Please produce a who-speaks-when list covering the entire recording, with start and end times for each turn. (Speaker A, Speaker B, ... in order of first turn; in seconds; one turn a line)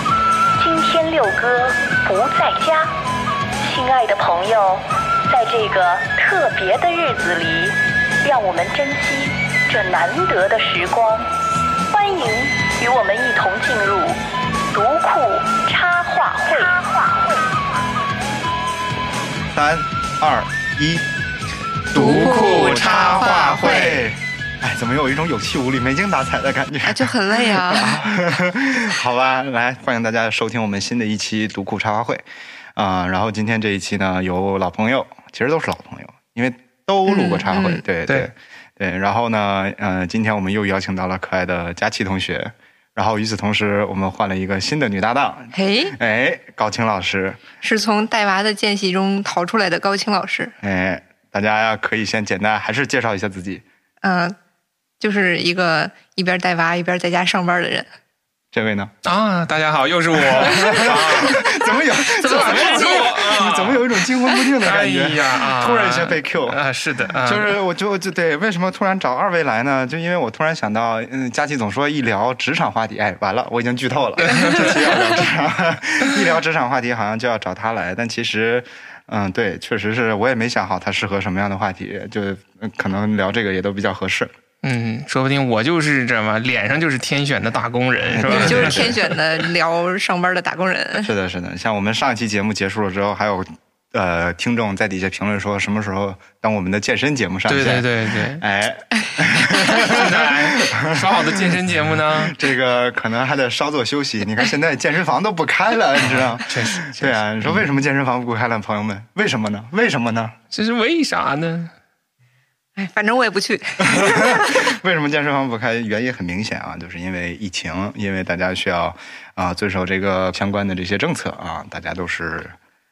Speaker A: 0.6-2.9
Speaker A: 3.6-11.3
Speaker A: 11.9-14.2
Speaker A: 14.7-16.8
Speaker B: 19.5-21.0
Speaker C: 21.9-23.9
Speaker B: 21.9-47.4
Speaker D: 21.9-24.1
Speaker D: 26.8-28.1
Speaker D: 37.0-37.8
Speaker D: 45.5-45.9
Speaker D: 47.6-50.5
Speaker B: 50.6-53.6
Speaker D: 54.0-54.4
Speaker D: 55.0-57.9
Speaker B: 58.5-58.9
Speaker C: 59.0-61.5
Speaker B: 60.1-66.6
Speaker C: 62.1-64.0
Speaker D: 62.1-63.3
Speaker C: 64.6-67.5
Speaker B: 67.2-84.3
Speaker C: 74.2-75.0
Speaker D: 74.3-74.7
Speaker C: 84.6-89.1
Speaker B: 88.1-89.0
Speaker D: 88.3-91.1
Speaker B: 91.0-101.6
Speaker C: 97.5-98.4
Speaker C: 99.6-102.4
Speaker B: 102.1-110.3
Speaker C: 106.0-107.7
Speaker C: 110.5-111.7
Speaker D: 112.8-114.7
Speaker B: 113.8-122.5